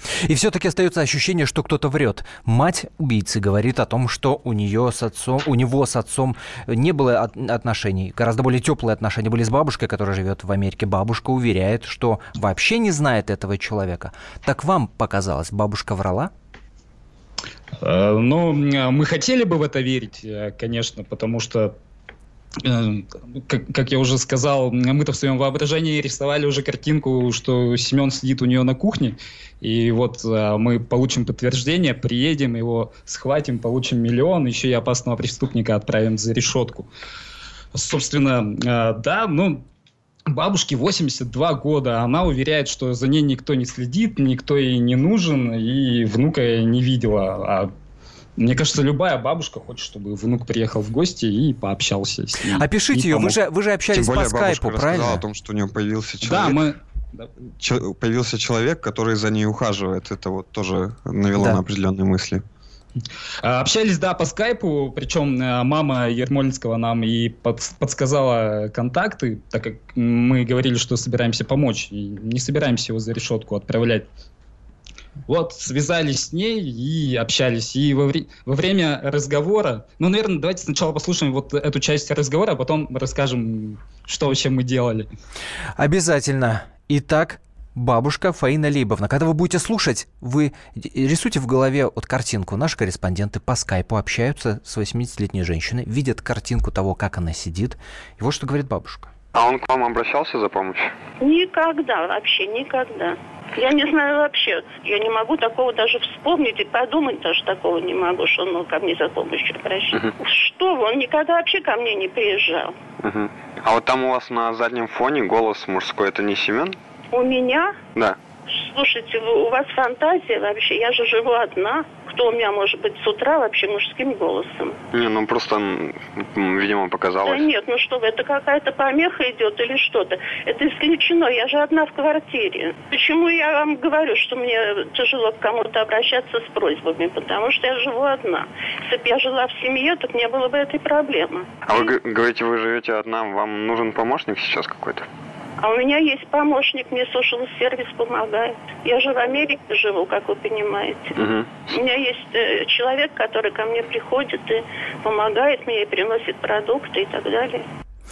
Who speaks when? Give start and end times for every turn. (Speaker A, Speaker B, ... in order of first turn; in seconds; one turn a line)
Speaker A: 0.2-16.3
Speaker B: 17.8-21.8
Speaker B: 22.6-36.9
Speaker B: 37.7-39.6
Speaker B: 40.3-47.7
Speaker B: 48.4-53.3
Speaker A: 52.5-55.2
Speaker C: 53.9-56.6
Speaker B: 56.2-57.3
Speaker C: 57.6-62.4
Speaker A: 61.3-61.6
Speaker B: 63.4-74.1
Speaker B: 75.3-85.1
Speaker A: 85.8-99.1
Speaker D: 99.3-100.9
Speaker E: 101.2-112.8
Speaker D: 113.0-116.8
Speaker E: 117.1-117.8
Speaker E: 118.5-124.8
Speaker D: 124.9-127.5
Speaker E: 127.2-141.9
Speaker D: 141.7-145.1
Speaker E: 145.6-157.6
Speaker D: 151.1-151.8